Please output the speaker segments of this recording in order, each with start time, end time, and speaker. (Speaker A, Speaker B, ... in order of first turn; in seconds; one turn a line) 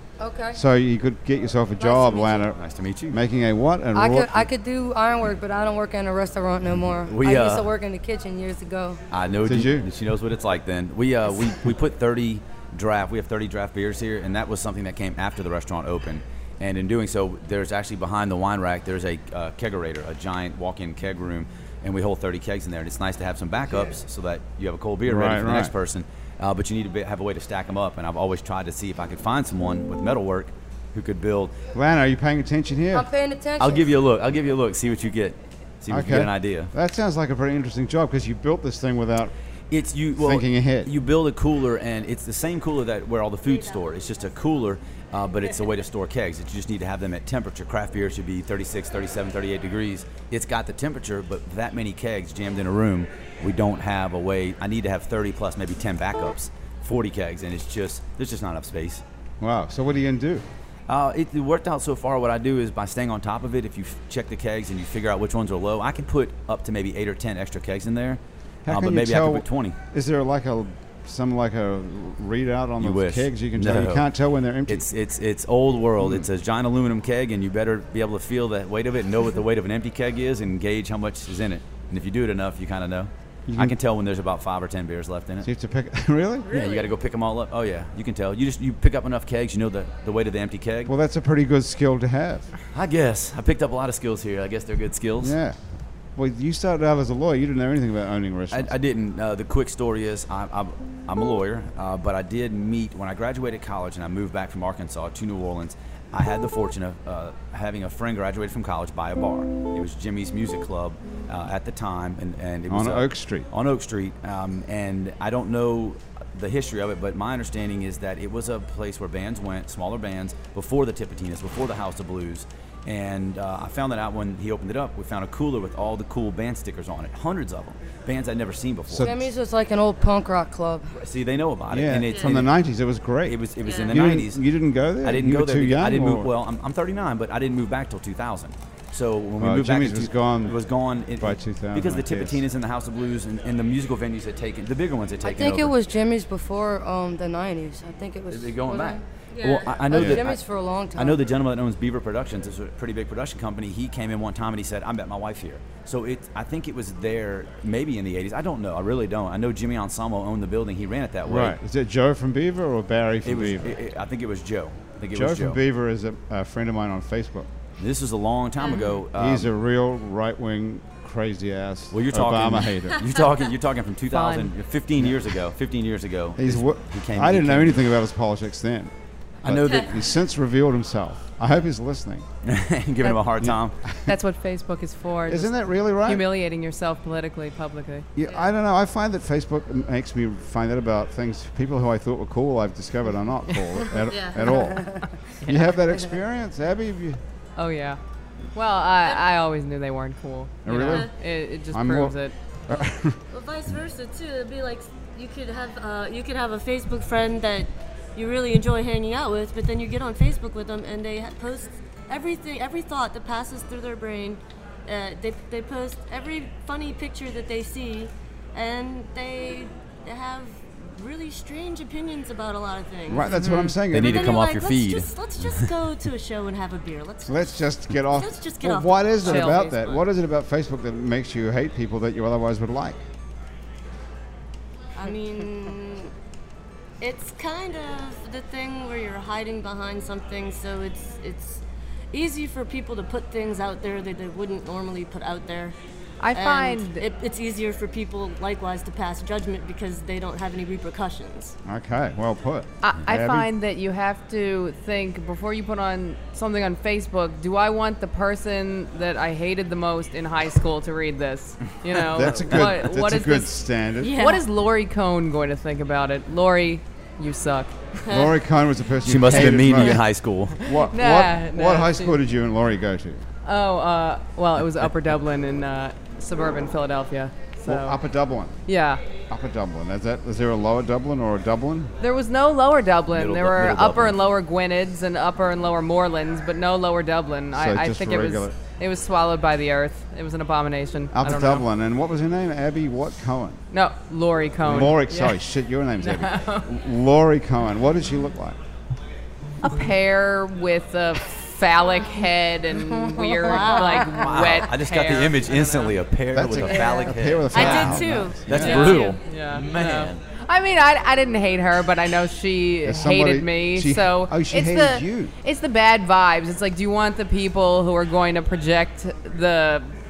Speaker A: 0.2-0.6
Speaker B: 0.5-4.5
Speaker A: 1.8-2.5
Speaker C: 2.5-3.2
Speaker A: 4.0-9.0
Speaker C: 7.1-7.7
Speaker C: 9.1-31.6
Speaker B: 9.4-9.9
Speaker B: 25.1-25.7
Speaker B: 31.7-33.1
Speaker A: 32.9-33.9
Speaker C: 33.6-36.7
Speaker B: 35.9-39.3
Speaker C: 39.7-59.0
Speaker B: 40.2-40.9
Speaker D: 43.5-43.9
Speaker B: 59.4-60.5
Speaker C: 60.9-69.8
Speaker B: 68.7-74.9
Speaker C: 72.8-74.1
Speaker C: 74.7-85.5
Speaker B: 76.0-76.3
Speaker B: 83.5-83.8
Speaker B: 85.4-86.5
Speaker D: 86.5-86.9
Speaker C: 86.5-90.9
Speaker B: 90.9-92.5
Speaker C: 92.7-95.4
Speaker B: 95.2-95.6
Speaker B: 96.2-98.7
Speaker C: 98.5-129.1
Speaker B: 112.7-113.5
Speaker B: 128.9-129.2
Speaker A: 129.0-130.9
Speaker C: 131.0-132.5
Speaker B: 131.7-136.3
Speaker D: 132.1-132.4
Speaker C: 133.2-134.4
Speaker D: 133.6-134.0
Speaker C: 135.0-145.7
Speaker B: 139.4-140.6
Speaker B: 141.2-142.4
Speaker A: 145.2-149.0
Speaker C: 148.3-150.4
Speaker D: 149.3-149.8
Speaker A: 149.9-151.2
Speaker B: 149.9-150.2
Speaker C: 150.9-161.6
Speaker B: 161.2-163.8
Speaker C: 163.2-165.6
Speaker B: 165.1-167.5
Speaker C: 167.8-169.5
Speaker B: 169.2-173.0
Speaker C: 171.9-177.8
Speaker E: 174.1-174.5
Speaker B: 176.4-178.9
Speaker C: 179.4-180.1
Speaker B: 179.4-182.3
Speaker C: 182.4-183.8
Speaker B: 183.4-184.1
Speaker E: 184.0-188.1
Speaker B: 185.3-186.3
Speaker B: 188.2-197.2
Speaker D: 194.1-194.8
Speaker E: 195.4-195.8
Speaker E: 197.6-198.0
Speaker E: 198.5-202.3
Speaker B: 200.7-201.1
Speaker B: 201.7-202.2
Speaker B: 202.7-203.2
Speaker D: 203.3-223.4
Speaker B: 223.1-224.4
Speaker E: 223.3-223.8
Speaker C: 223.9-225.7
Speaker D: 224.0-227.5
Speaker B: 227.3-233.0
Speaker D: 228.1-230.0
Speaker E: 229.2-229.7
Speaker D: 235.0-236.1
Speaker D: 237.0-245.8
Speaker E: 246.2-247.1
Speaker D: 246.3-251.6
Speaker B: 251.7-253.5
Speaker E: 252.8-267.8
Speaker B: 262.1-264.1
Speaker C: 262.4-262.7
Speaker D: 264.0-264.4
Speaker D: 268.0-268.3
Speaker B: 268.1-270.1
Speaker C: 269.1-270.6
Speaker E: 270.6-272.2
Speaker B: 270.6-273.2
Speaker E: 273.4-278.0
Speaker B: 277.6-278.6
Speaker E: 278.7-279.0
Speaker B: 279.3-281.9
Speaker E: 282.0-291.7
Speaker C: 283.1-284.2
Speaker B: 287.5-288.6
Speaker B: 291.1-293.6
Speaker E: 293.7-295.4
Speaker B: 294.6-298.6
Speaker E: 296.0-296.7
Speaker E: 299.6-306.0
Speaker D: 303.4-304.2
Speaker C: 304.1-310.2
Speaker B: 306.3-308.9
Speaker D: 307.5-309.1
Speaker E: 308.5-319.9
Speaker B: 312.9-315.3